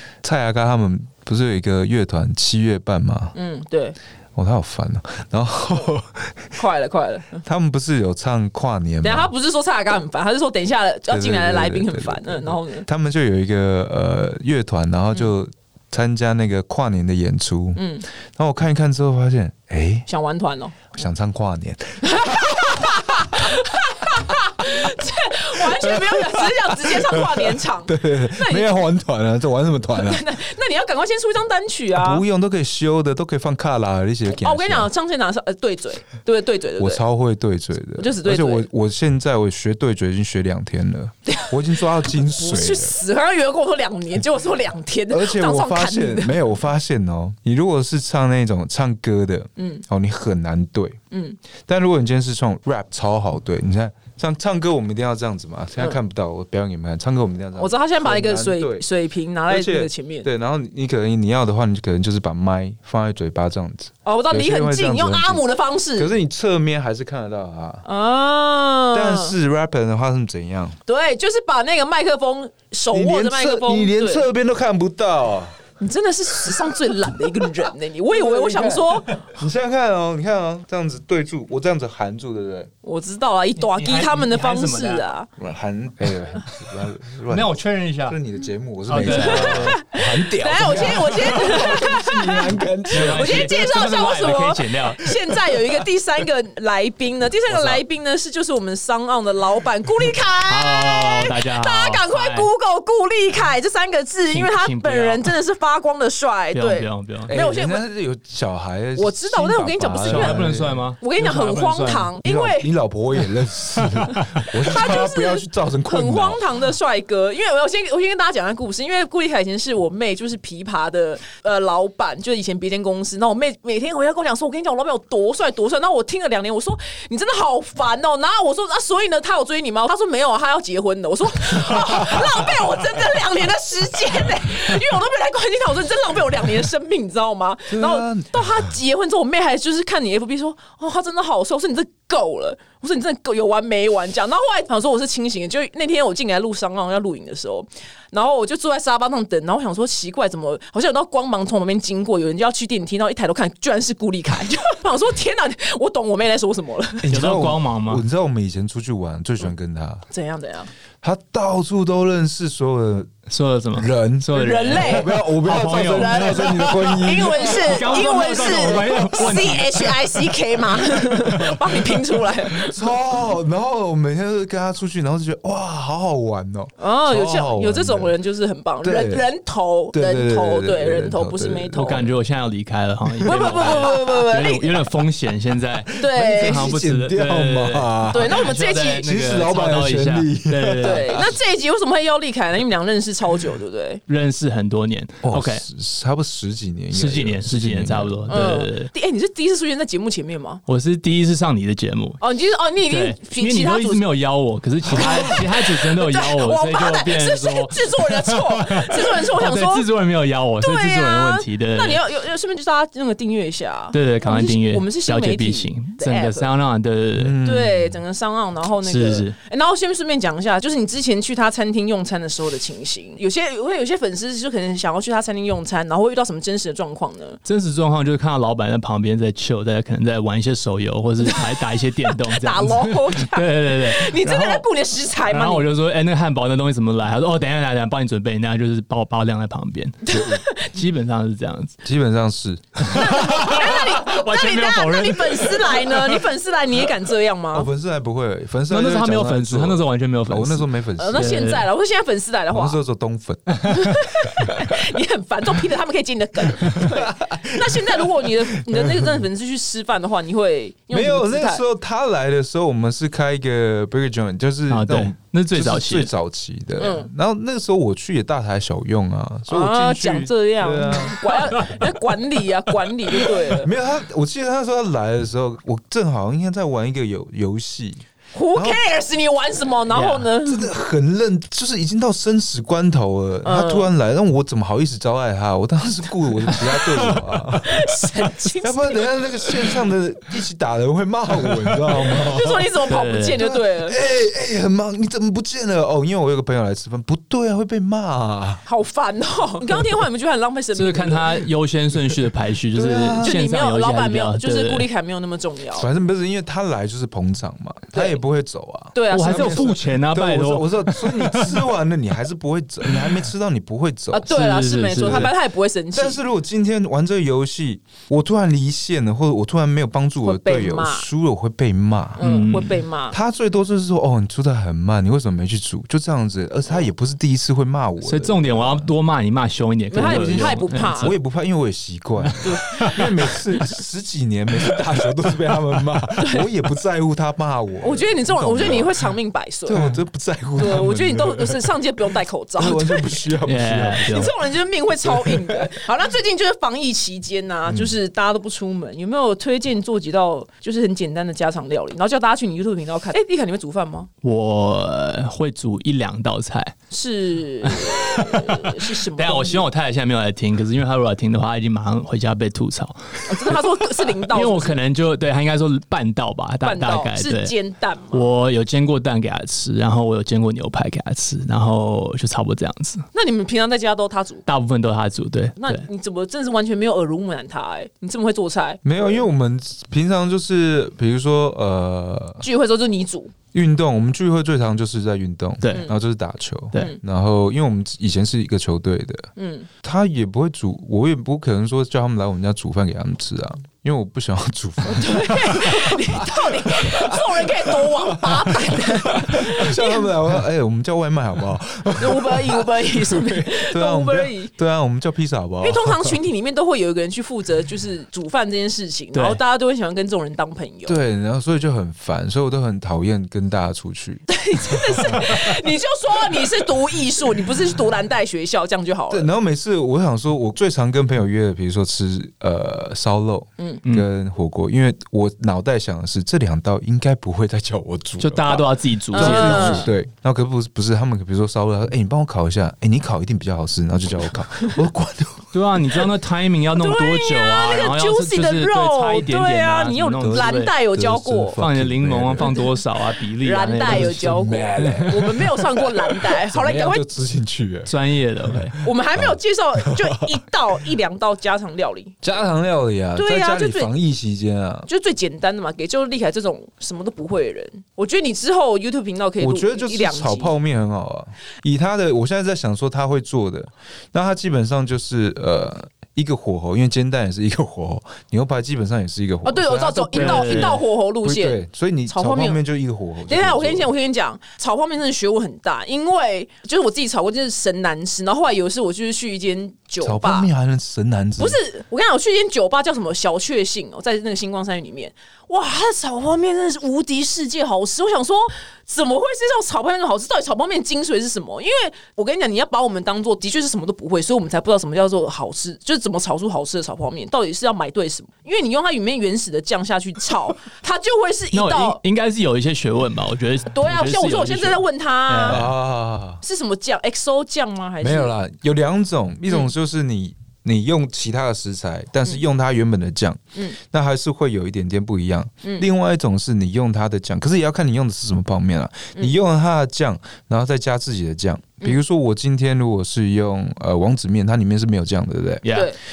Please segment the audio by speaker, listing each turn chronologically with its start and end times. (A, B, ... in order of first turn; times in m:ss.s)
0:00.2-0:03.3 A
0:03.3-0:04.0 B
0:04.3-0:06.5 A
0:06.6-0:07.4 B
0:07.4-0:09.3 A
0:09.0-0:12.9 B
0:11.1-0:20.0 A
0:17.8-0:18.0 B
0:20.1-0:20.9 B
0:20.9-0:30.3 A
0:22.0-0:28.9 B
0:29.9-0:32.2 B
0:32.0-0:34.9 A
0:34.3-0:37.0 B
0:36.8-0:43.0 A
0:38.0-0:38.6 B
0:42.2-0:46.5 B
0:45.1-0:51.0 A
0:49.6-0:49.8 B
0:51.1-0:51.4 B
0:51.6-0:58.8 A
0:57.6-1:00.3 B
0:59.5-1:05.4 A
1:04.0-1:06.1 B
1:05.9-1:07.8 A
1:07.8-1:09.3 B
1:08.9-1:10.8 A
1:10.8-1:14.3 B
1:12.9-1:15.6 A
1:15.8-1:19.2 B
1:17.2-1:17.5 A
1:18.1-1:22.7 A
1:22.8-1:25.3 B
1:23.6-1:25.0 C
1:25.4-1:33.5 A
1:27.3-1:28.2 C
1:28.9-1:29.8 C
1:29.0-1:47.8 B
1:32.9-1:35.4 C
1:37.5-1:37.8 C
1:40.5-1:42.5 C
1:44.3-1:45.3 C
1:46.5-1:47.3 C
1:47.3-1:50.9 A
1:49.0-1:52.7 B
1:50.0-1:52.1 C
1:52.2-1:56.4 A
1:54.5-2:37.1 B
2:12.0-2:12.2 A
2:17.7-2:18.7 A
2:37.0-2:40.0 A
2:37.1-2:38.0 C
2:40.1-2:40.7 B
2:41.0-2:43.2 A
2:43.3-2:51.8 C
2:43.7-2:47.9 A
2:44.3-2:52.8 B
2:51.2-2:51.6 A
2:52.6-2:58.1 A
2:56.8-3:02.0 B
2:58.8-2:59.2 A
2:59.9-3:02.0 A
3:01.7-3:11.2 C
3:03.2-3:03.9 A
3:03.2-3:04.9 B
3:05.9-3:11.4 A
3:05.9-3:06.7 B
3:08.1-3:09.0 B
3:10.8-3:14.0 B
3:14.1-3:15.6 C
3:15.2-3:18.3 A
3:16.9-3:18.9 C
3:18.3-3:20.6 B
3:20.7-3:22.2 C
3:22.2-3:24.1 B
3:22.9-3:32.0 C
3:24.9-3:25.4 A
3:24.9-3:29.9 B
3:30.6-3:36.5 B
3:33.9-3:37.4 C
3:37.2-3:38.0 A
3:37.4-3:47.4 B
3:38.8-3:39.3 C
3:47.4-3:54.6 C
3:52.1-3:55.7 B
3:55.3-4:01.8 C
4:00.0-4:00.7 B
4:00.1-4:00.4 A
4:01.8-4:03.3 A
4:02.8-4:06.2 C
4:02.9-4:07.7 B
4:07.5-4:11.4 A
4:08.7-4:11.6 C
4:11.0-4:12.8 B
4:12.5-4:14.8 A
4:13.6-4:21.6 B
4:16.5-4:19.2 A
4:20.9-4:31.8 A
4:24.7-4:26.1 C
4:26.8-4:27.1 B
4:29.5-4:33.7 B
4:33.5-4:38.0 A
4:38.3-4:40.7 B
4:38.5-4:38.8 A
4:39.9-4:40.3 C
4:40.4-4:48.1 A
4:43.4-4:43.9 B
4:47.6-4:49.5 B
4:48.6-4:52.7 A
4:51.9-4:54.0 B
4:52.9-4:53.4 C
4:53.4-4:58.6 A
4:58.6-5:01.4 B
5:00.7-5:04.9 C
5:02.7-5:03.4 A
5:03.2-5:05.9 B
5:05.7-5:14.3 A
5:07.9-5:08.2 B
5:08.9-5:09.7 B
5:09.1-5:11.6 C
5:12.8-5:13.2 C
5:14.1-5:16.2 B
5:14.2-5:15.3 C
5:15.0-5:15.3 A
5:15.9-5:22.2 A
5:20.2-5:21.1 B
5:22.2-5:22.8 C
5:22.2-5:23.2 B
5:23.1-5:28.9 A
5:28.0-5:31.2 C
5:29.9-5:31.1 B
5:30.0-5:39.0 A
5:32.2-5:33.1 C
5:32.4-5:33.0 B
5:36.2-5:36.4 B
5:37.8-5:39.8 B
5:39.6-5:41.7 A
5:40.6-5:43.3 B
5:42.6-5:44.3 A
5:43.4-5:44.3 C
5:44.0-5:54.1 B
5:45.0-5:45.7 A
5:47.7-5:47.9 A
5:54.2-5:56.7 C
5:56.9-5:59.6 B
5:57.6-6:07.6 C
6:03.2-6:04.8 B
6:06.6-6:08.2 B
6:08.1-6:13.1 C
6:13.1-6:14.4 B
6:14.4-6:15.8 C
6:15.6-6:19.2 B
6:18.8-6:22.4 A
6:22.4-6:23.3 B
6:23.5-6:29.3 A
6:25.6-6:25.9 C
6:25.7-6:25.9 B
6:29.4-6:29.7 B
6:29.8-6:46.2 A
6:34.9-6:40.1 B
6:42.0-6:44.5 B
6:45.6-6:51.0 B
6:49.1-6:49.4 C
6:50.8-6:55.5 A
6:54.3-6:59.3 B
6:59.1-7:15.8 A
7:08.2-7:09.9 C
7:09.1-7:09.9 B
7:15.5-7:20.7 C
7:16.8-7:21.6 B
7:20.2-7:22.5 A
7:21.6-7:25.2 C
7:22.4-7:22.8 B
7:23.4-7:27.0 B
7:23.8-7:30.4 A
7:27.8-7:28.8 C
7:28.8-7:32.2 B
7:32.2-7:34.9 A
7:33.2-7:33.9 B
7:34.9-7:40.5 B
7:39.4-7:53.9 A
7:49.4-7:52.6 B
7:50.1-7:50.8 C
7:53.3-8:00.5 B
8:00.0-8:01.6 A
8:01.4-8:22.0 B
8:21.5-8:25.7 C
8:23.7-8:25.6 B
8:25.5-8:26.4 A
8:26.4-8:28.3 B
8:28.0-8:45.8 A
8:45.6-8:45.9 C
8:45.7-8:46.0 B